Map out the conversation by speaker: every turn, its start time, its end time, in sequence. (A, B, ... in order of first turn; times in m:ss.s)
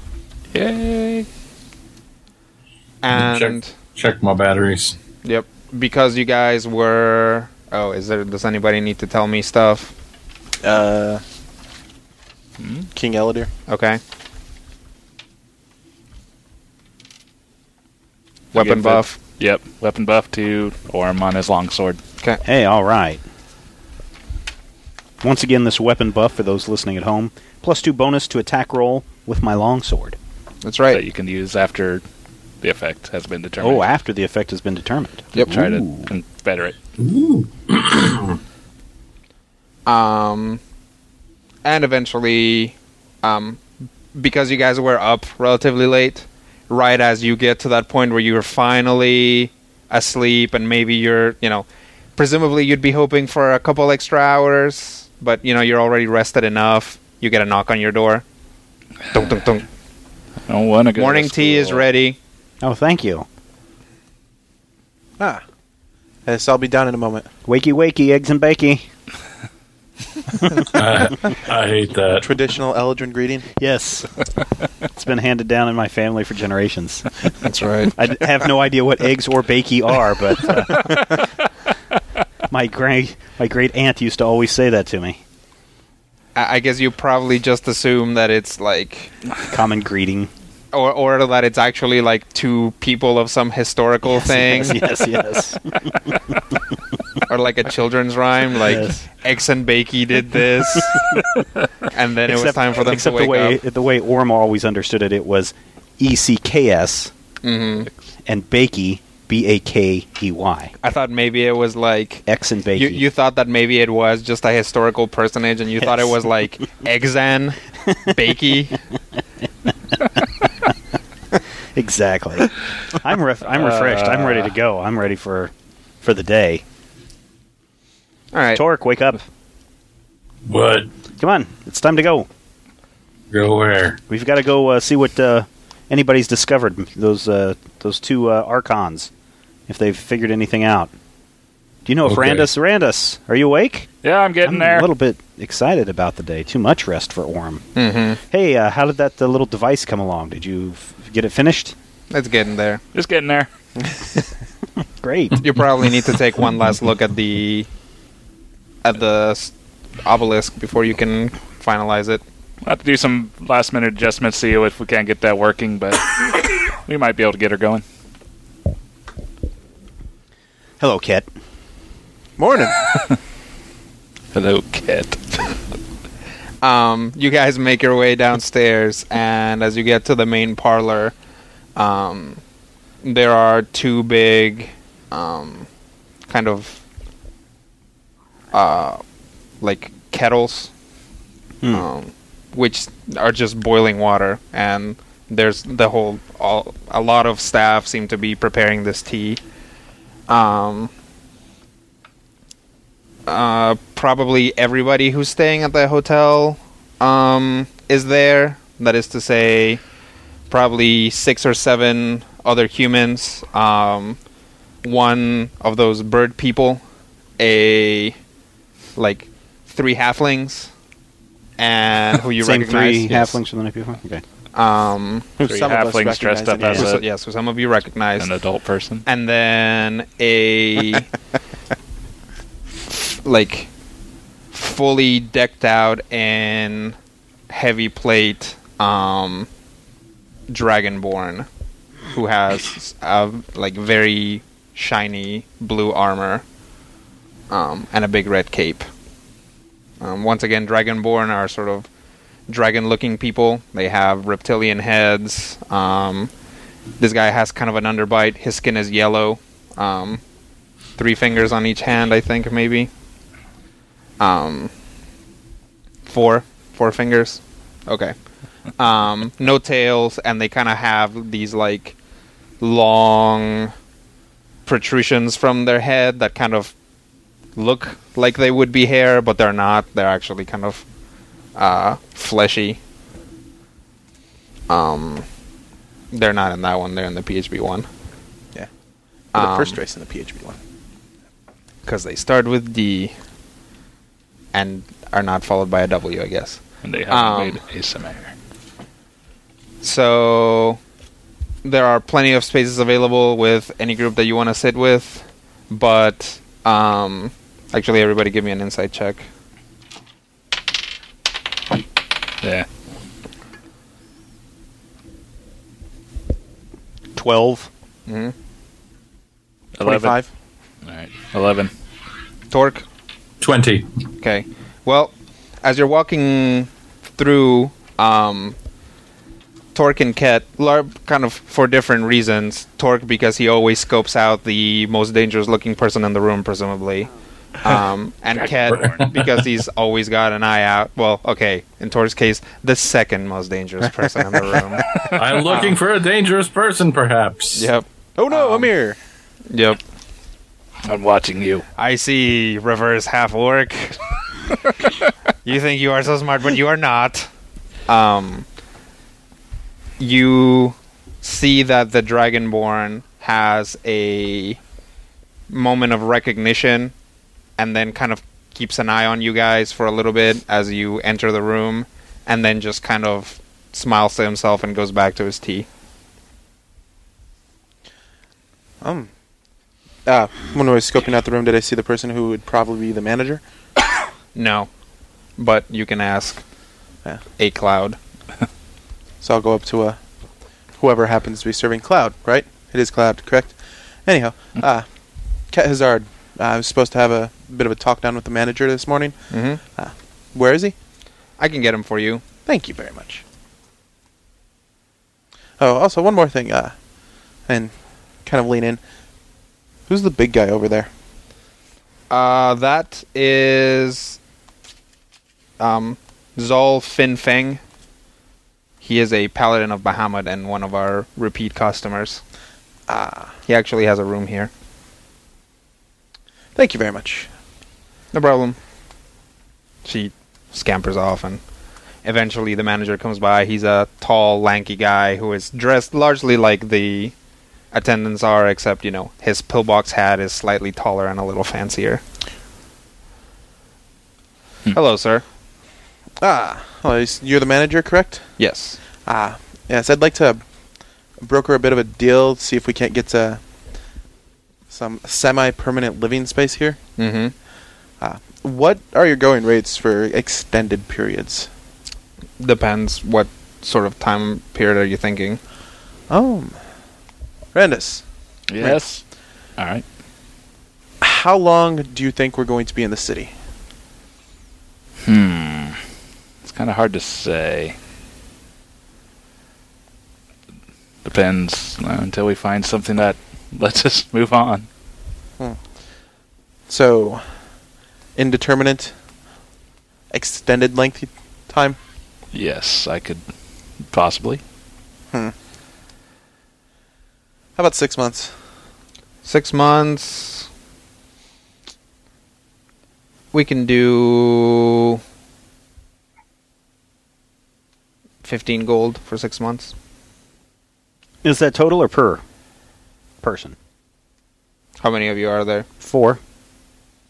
0:00.5-0:01.3 A
0:03.0-0:03.7 B
0:03.1-0:05.0 C
0:05.2-0:09.9 B
0:10.6-0:11.2 D
0:12.6-0:12.9 A
0:13.0-0:13.5 D
0:13.7-0:14.0 B
0:18.5-0:19.2 B
0:18.6-0:22.0 A
0:22.4-0:23.2 E
0:25.2-0:30.2 E
0:30.6-0:31.0 B
0:30.9-0:32.0 A
0:32.6-0:33.9 A
0:33.6-0:36.1 E
0:35.4-0:36.8 A
0:37.0-0:38.4 C
0:39.9-0:40.6 B
0:41.6-0:43.6 B
0:44.2-0:58.2 B
0:59.1-0:59.6 B
1:00.5-1:01.9 A
1:01.0-1:02.2 B
1:02.6-1:03.3 E
1:06.3-1:07.3 D
1:07.5-1:08.9 E
1:10.4-1:10.7 E
1:10.7-1:12.3 C
1:12.2-1:13.5 D
1:13.6-1:14.1 E
1:15.0-1:17.3 E
1:17.4-1:18.0 B
1:18.0-1:21.2 E
1:22.5-1:25.2 E
1:26.4-1:29.1 B
1:29.5-1:30.3 E
1:30.7-1:34.8 B
1:34.0-1:36.1 E
1:37.3-1:41.1 B
1:38.6-1:39.0 E
1:41.9-1:43.6 B
1:42.3-1:47.1 E
1:47.4-1:47.9 B
1:48.3-1:50.7 E
1:50.8-1:58.8 B
1:52.3-1:53.0 E
1:55.8-1:56.1 E
2:01.8-2:06.6 E
2:03.5-2:04.5 A
2:08.3-2:08.6 B
2:08.6-2:09.2 E
2:10.5-2:10.9 C
2:11.2-2:12.3 E
2:13.3-2:14.0 C
2:14.1-2:19.1 E
2:19.7-2:20.9 E
2:21.8-2:23.9 E
2:22.1-2:22.5 C
2:24.0-2:24.9 A
2:24.4-2:27.6 E
2:27.8-2:28.2 B
2:28.3-2:31.8 E
2:32.1-2:32.8 B
2:32.9-2:33.5 A
2:35.0-2:35.4 E
2:35.4-2:37.7 B
2:38.8-2:42.2 B
2:42.6-2:47.8 A
2:50.8-2:51.3 E
2:52.4-2:52.8 D
2:54.3-2:55.6 A
2:56.6-3:01.1 B
3:01.8-3:02.4 B
3:03.0-3:05.7 B
3:06.3-3:06.8 B
3:08.5-3:09.0 B
3:09.6-3:10.7 B
3:11.7-3:19.4 B
3:20.3-3:20.9 B
3:23.3-3:29.8 B
3:30.5-3:34.2 B
3:34.8-3:36.8 B
3:37.4-3:38.2 B
3:39.0-3:40.7 B
3:41.6-3:43.4 B
3:42.4-3:44.2 E
3:44.5-3:45.3 B
3:45.4-3:47.0 D
3:45.4-3:47.0 A
3:46.7-3:48.3 B
3:48.2-3:49.0 A
3:49.1-3:51.1 B
3:52.9-3:53.7 B
3:54.5-3:57.0 B
3:57.5-3:59.5 B
4:00.5-4:01.5 B
4:02.1-4:06.4 B
4:07.5-4:08.9 B
4:10.0-4:11.9 B
4:12.5-4:16.3 B
4:17.0-4:20.2 B
4:21.0-4:22.9 B
4:24.2-4:24.7 B
4:26.1-4:28.2 B
4:28.8-4:32.0 B
4:32.6-4:33.7 B
4:34.7-4:36.7 B
4:37.6-4:40.8 B
4:41.6-4:42.8 B
4:44.7-4:45.2 B
4:46.1-4:47.9 B
4:49.3-4:49.8 B
4:49.3-4:50.6 D
4:51.9-4:53.1 B
4:54.5-4:57.6 B
4:56.8-4:58.3 A
4:59.8-5:00.8 B
5:01.6-5:09.3 B
5:17.2-5:17.7 E
5:18.1-5:18.3 B
5:19.8-5:20.2 A
5:19.8-5:20.3 D
5:20.9-5:21.7 A
5:22.5-5:22.8 B
5:23.4-5:23.9 C
5:24.2-5:28.6 B
5:29.8-5:45.8 B
5:38.4-5:39.0 A
5:38.7-5:39.2 C
5:45.2-5:47.7 C
5:47.6-5:48.7 B
5:48.2-5:49.0 D
5:49.5-5:49.8 B
5:50.8-5:51.6 A
5:51.8-5:54.0 B
5:55.4-5:57.3 B
5:57.9-5:58.5 B
6:00.0-6:04.6 B
6:05.5-6:06.9 B
6:07.6-6:15.7 B
6:18.8-6:19.1 D
6:20.1-6:23.4 D
6:24.4-6:24.7 B
6:25.4-6:26.4 B
6:27.4-6:28.0 B
6:29.2-6:30.0 D
6:30.8-6:34.9 D
6:35.5-6:39.2 D
6:39.3-6:39.6 B
6:39.8-6:40.8 D
6:41.4-6:42.2 B
6:42.5-6:43.2 D
6:45.6-6:46.8 D
6:47.5-6:48.8 D
6:49.9-6:50.9 D
6:52.1-6:54.2 B
6:55.6-6:57.6 B
6:58.8-7:02.2 B
7:02.9-7:03.3 D
7:03.5-7:04.5 B
7:06.6-7:07.3 D
7:08.1-7:08.6 B
7:09.8-7:11.4 B
7:12.0-7:17.1 B
7:17.7-7:22.0 B
7:24.7-7:25.2 B
7:26.2-7:28.3 D
7:28.4-7:28.8 B
7:29.0-7:30.4 D
7:31.2-7:33.4 D
7:34.7-7:36.8 D
7:37.0-7:37.3 B
7:38.0-7:41.5 D
7:42.4-7:45.4 B
7:46.1-7:46.6 D
7:47.5-7:48.0 D
7:48.5-7:49.1 A
7:48.6-7:48.8 D
7:49.6-7:49.8 A
7:51.0-7:53.3 D
7:55.0-7:55.8 A
7:56.4-7:57.8 A
8:01.0-8:04.7 A
8:06.7-8:07.4 D
8:08.2-8:09.0 D
8:10.1-8:11.8 D
8:12.3-8:13.3 A
8:13.8-8:14.4 A
8:17.6-8:18.3 D
8:19.2-8:20.5 B
8:23.3-8:25.0 B
8:28.2-8:29.7 B
8:31.2-8:32.2 E
8:33.2-8:33.6 E
8:34.8-8:35.7 B
8:35.8-8:36.2 E